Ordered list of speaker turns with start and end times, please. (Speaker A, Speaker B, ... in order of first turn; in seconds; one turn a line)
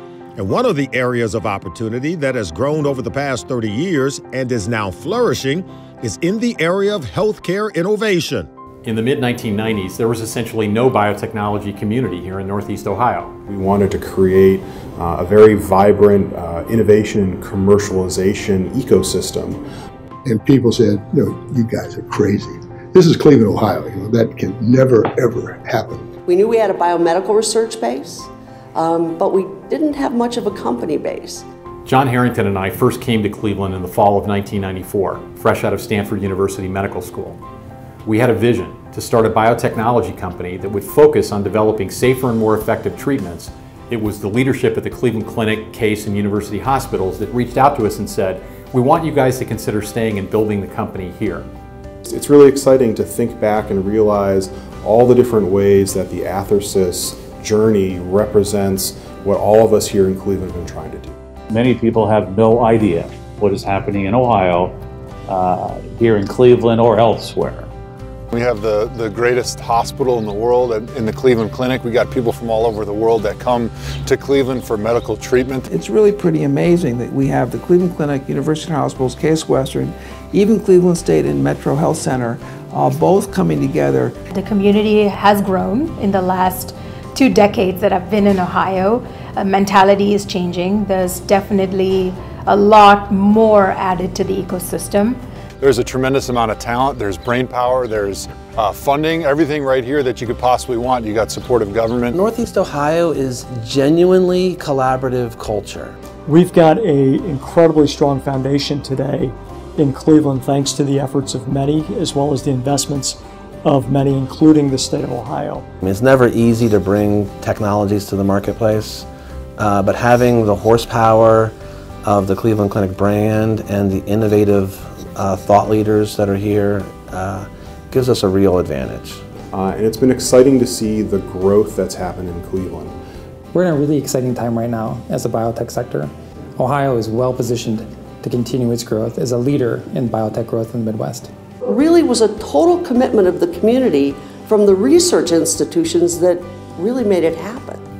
Speaker A: 0.3-8.5
Speaker B: 8.8-13.3
Speaker C: 13.5-19.6
Speaker D: 20.2-26.1
Speaker E: 26.2-31.5
Speaker B: 31.9-37.4
Speaker B: 38.0-51.5
Speaker C: 52.0-61.2
Speaker F: 61.5-64.7
Speaker F: 65.4-67.7
Speaker G: 68.3-75.6
Speaker H: 75.7-84.1
Speaker I: 84.3-95.2
Speaker G: 95.6-102.1
Speaker J: 102.1-106.0
Speaker K: 106.2-115.6
Speaker J: 115.8-129.2
Speaker C: 129.5-133.0
Speaker L: 133.5-141.3
Speaker E: 141.6-147.8